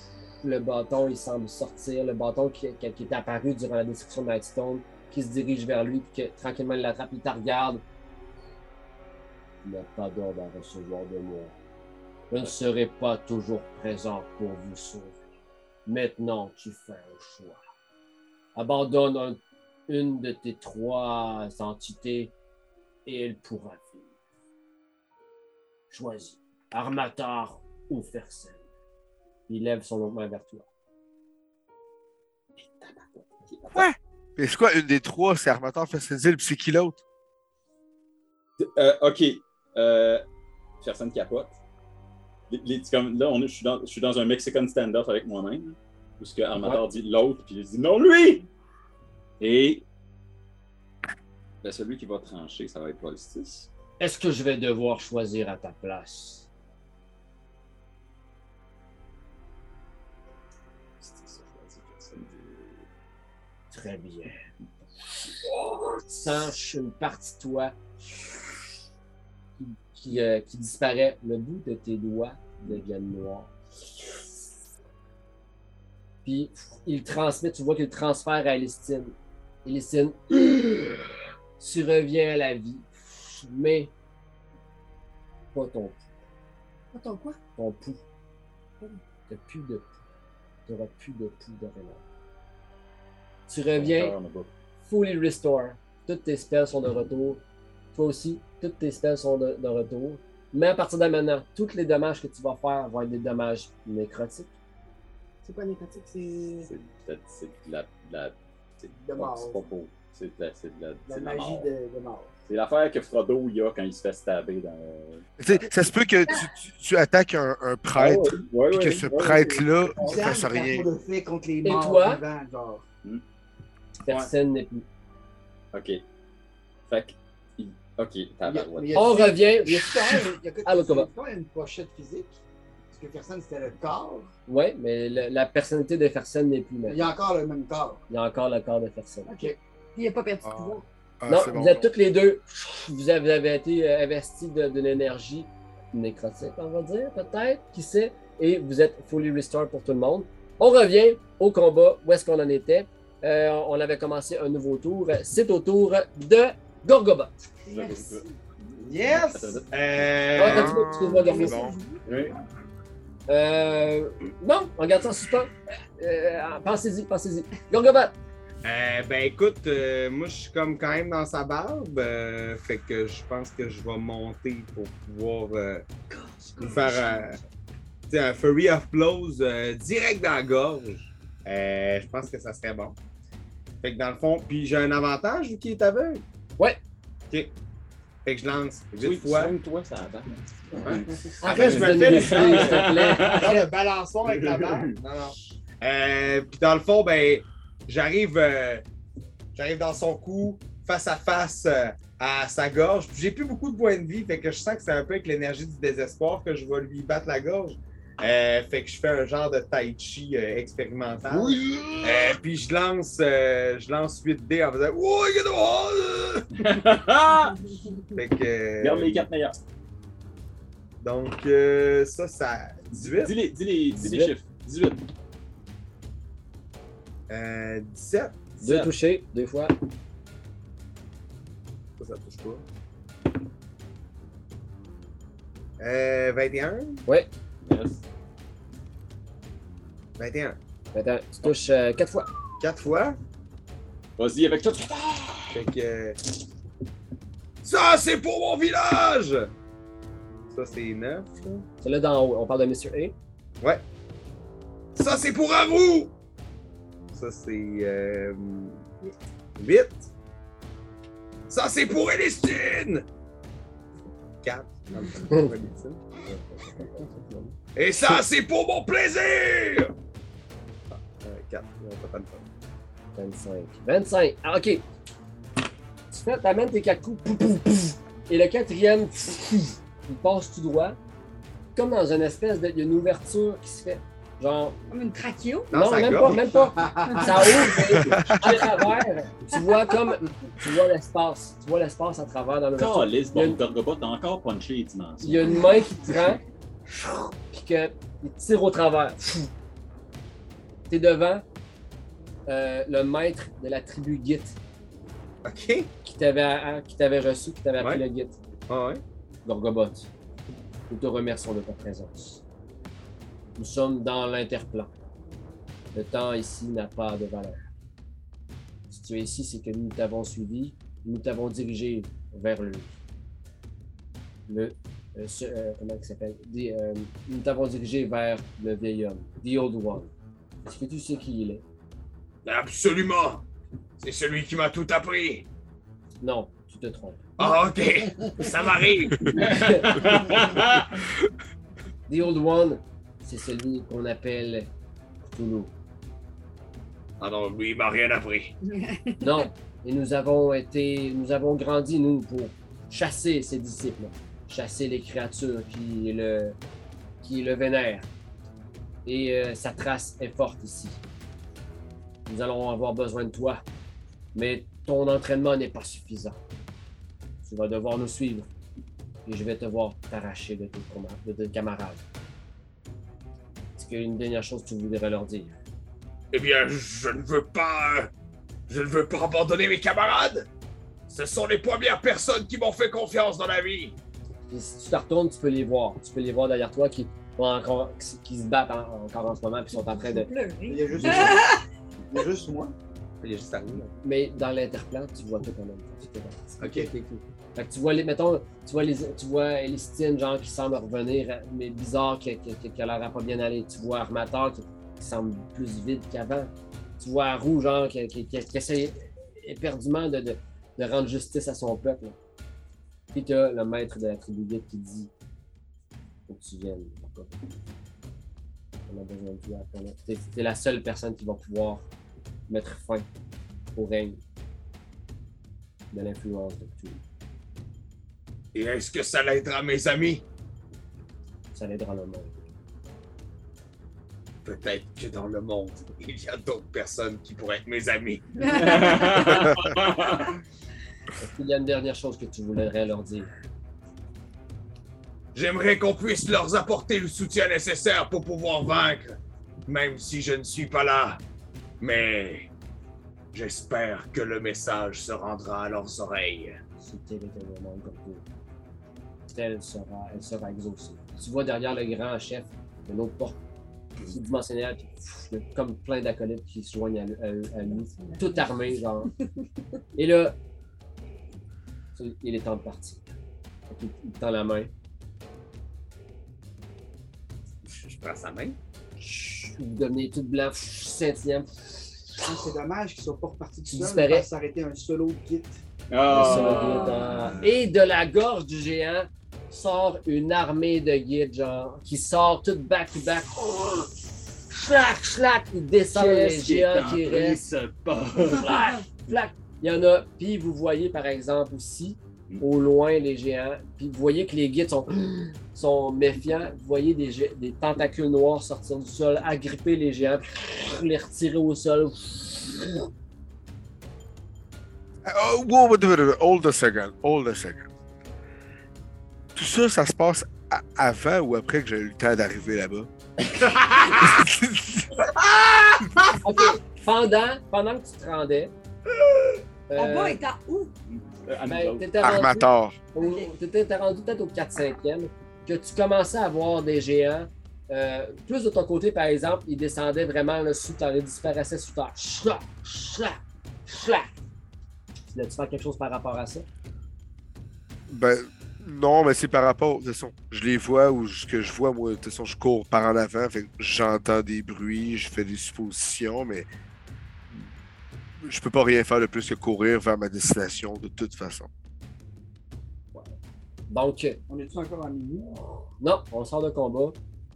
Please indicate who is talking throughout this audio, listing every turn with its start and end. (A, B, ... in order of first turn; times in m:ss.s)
0:00.4-0:07.8 A
0:09.6-0:11.6 A
0:12.3-0:15.2 A
0:15.9-0:17.6 A
0:18.6-0:22.3 A
0:23.1-0:24.0 A
0:25.9-0:28.6 A
0:29.5-0:30.7 A
0:32.8-0:33.9 B
0:34.4-0:37.0 C
0:38.6-0:40.2 B
0:40.8-0:41.6 B
0:42.5-0:48.5 B
0:46.6-0:46.8 A
0:49.4-0:49.8 B
0:51.6-0:53.7 B
0:54.0-0:56.5 A
1:01.0-1:02.8 B
1:03.7-1:04.5 A
1:06.1-1:07.8 A
1:09.6-1:13.5 A
1:16.2-1:19.1 A
1:19.6-1:21.0 A
1:21.6-1:23.9 A
1:25.5-1:26.0 A
1:26.9-1:27.4 D
1:27.6-1:28.0 A
1:29.3-1:29.9 A
1:30.7-1:32.0 A
1:33.5-1:34.1 A
1:33.7-1:34.5 B
1:34.8-1:37.4 A
1:37.9-1:44.5 A
1:45.4-1:46.7 D
1:46.7-1:51.7 B
1:48.9-1:49.6 E
1:51.1-1:52.3 E
1:52.5-1:55.3 B
1:55.4-2:00.9 C
1:58.0-2:00.1 B
2:00.0-2:02.8 E
2:01.6-2:02.2 A
2:04.1-2:04.8 A
2:05.7-2:06.0 B
2:06.9-2:09.2 B
2:08.4-2:12.4 E
2:09.0-2:11.1 A
2:12.9-2:14.3 E
2:14.5-2:17.1 A
2:16.9-2:18.0 E
2:18.1-2:19.3 A
2:19.3-2:19.6 E
2:19.4-2:20.8 D
2:20.5-2:21.9 C
2:21.3-2:37.4 A
2:37.6-2:40.4 B
2:37.7-2:38.3 D
2:38.8-2:39.2 E
2:38.9-2:40.8 F
2:40.4-2:41.6 A
2:40.4-2:41.8 C
2:40.8-2:42.0 D
2:42.1-2:42.4 B
2:43.3-2:48.1 A
2:48.6-2:55.9 F
2:56.6-2:57.4 F
2:58.1-3:03.0 F
3:03.8-3:06.2 F
3:08.2-3:09.5 F
3:09.0-3:13.5 B
3:10.8-3:18.8 F
3:11.4-3:13.7 A
3:14.3-3:14.8 B
3:19.6-3:36.2 F
3:31.3-3:32.0 B
3:36.6-3:37.6 B
3:37.3-3:38.1 D
3:38.2-3:39.3 F
3:38.8-3:39.6 B
3:41.0-3:43.3 F
3:42.9-3:45.0 B
3:44.0-3:44.3 A
3:47.3-3:48.4 F
3:48.6-3:48.9 B
3:48.6-3:49.7 A
3:52.0-3:52.6 F
3:55.8-3:57.0 F
3:57.6-3:58.0 B
4:00.2-4:00.6 F
4:00.9-4:02.3 A
4:02.6-4:03.2 F
4:04.2-4:05.6 B
4:05.5-4:06.2 F
4:07.6-4:09.5 F
4:08.0-4:08.8 G
4:10.5-4:11.6 F
4:11.8-4:13.2 A
4:15.0-4:16.1 G
4:17.1-4:18.8 F
4:19.6-4:20.1 F
4:21.5-4:22.8 F
4:22.0-4:23.0 G
4:24.4-4:26.0 F
4:26.3-4:27.6 A
4:27.8-4:29.9 G
4:31.0-4:32.5 F
4:33.2-4:34.8 A
4:36.1-4:41.0 A
4:41.8-4:44.8 A
4:44.9-4:45.7 D
4:45.7-4:46.5 F
4:45.7-4:53.6 A
4:46.8-4:47.1 E
4:47.1-4:48.6 D
4:48.0-4:48.4 C
4:52.8-4:55.7 B
4:55.2-4:59.5 A
5:00.9-5:01.4 A
5:02.5-5:04.6 A
5:05.4-5:05.9 F
5:06.0-5:08.4 A
5:08.7-5:09.0 F
5:09.4-5:10.1 A
5:10.9-5:12.4 A
5:13.6-5:14.9 A
5:15.9-5:17.6 A
5:18.9-5:22.9 A
5:24.5-5:30.1 A
5:30.6-5:31.6 A
5:32.4-5:33.4 G
5:34.0-5:35.5 G
5:36.2-5:37.3 A
5:37.4-5:39.3 G
5:39.4-5:40.9 B
5:39.4-5:39.9 A
5:42.1-5:44.7 A
5:45.2-5:45.7 A
5:47.2-5:48.5 G
5:48.7-5:49.4 D
5:49.2-5:56.6 A
5:57.2-5:58.1 A
5:59.0-6:01.0 A
6:02.3-6:03.6 A
6:04.3-6:06.4 A
6:07.4-6:08.5 A
6:09.3-6:12.0 A
6:13.8-6:15.5 A
6:16.3-6:18.1 G
6:18.7-6:20.5 G
6:21.1-6:24.0 G
6:24.5-6:30.3 A
6:29.7-6:31.6 D
6:30.7-6:32.8 E
6:33.2-6:33.9 F
6:34.0-6:36.7 A
6:36.6-6:36.9 E
6:36.6-6:37.2 F
6:37.6-6:52.2 A
6:53.1-6:55.1 A
6:56.3-6:57.4 A
6:58.9-7:01.9 A
7:02.5-7:03.1 A
7:03.8-7:04.2 A
7:05.9-7:07.0 A
7:08.5-7:10.2 G
7:11.5-7:12.4 A
7:14.4-7:18.4 G
7:18.4-7:19.4 D
7:18.5-7:20.3 B
7:21.2-7:23.3 A
7:25.4-7:31.2 G
7:31.8-7:32.5 G
7:33.3-7:36.6 G
7:36.8-7:38.2 A
7:39.3-7:43.4 A
7:44.0-7:49.1 A
7:47.6-7:48.7 D
7:50.0-7:50.4 A
7:52.0-7:53.1 A
7:53.7-7:54.7 A
7:57.7-7:58.6 F
7:59.0-8:01.6 A
8:02.2-8:05.6 E
8:03.6-8:04.3 A
8:05.9-8:07.4 B
8:06.1-8:14.0 A
8:06.3-8:07.0 D
8:14.5-8:17.4 A
8:15.9-8:18.6 B
8:18.4-8:32.8 A
8:35.0-8:37.7 C
8:39.4-8:42.9 C
8:44.0-8:45.2 C
8:46.2-8:48.5 A
8:49.7-8:50.2 A
8:49.8-8:50.7 D
8:50.9-8:51.9 B
8:51.5-9:04.1 A
8:52.0-8:52.8 C
8:53.0-8:53.3 D
9:05.1-9:06.5 A
9:07.9-9:16.5 C
9:18.2-9:21.5 C
9:23.7-9:24.2 A
9:24.3-9:25.4 E
9:25.8-9:27.0 A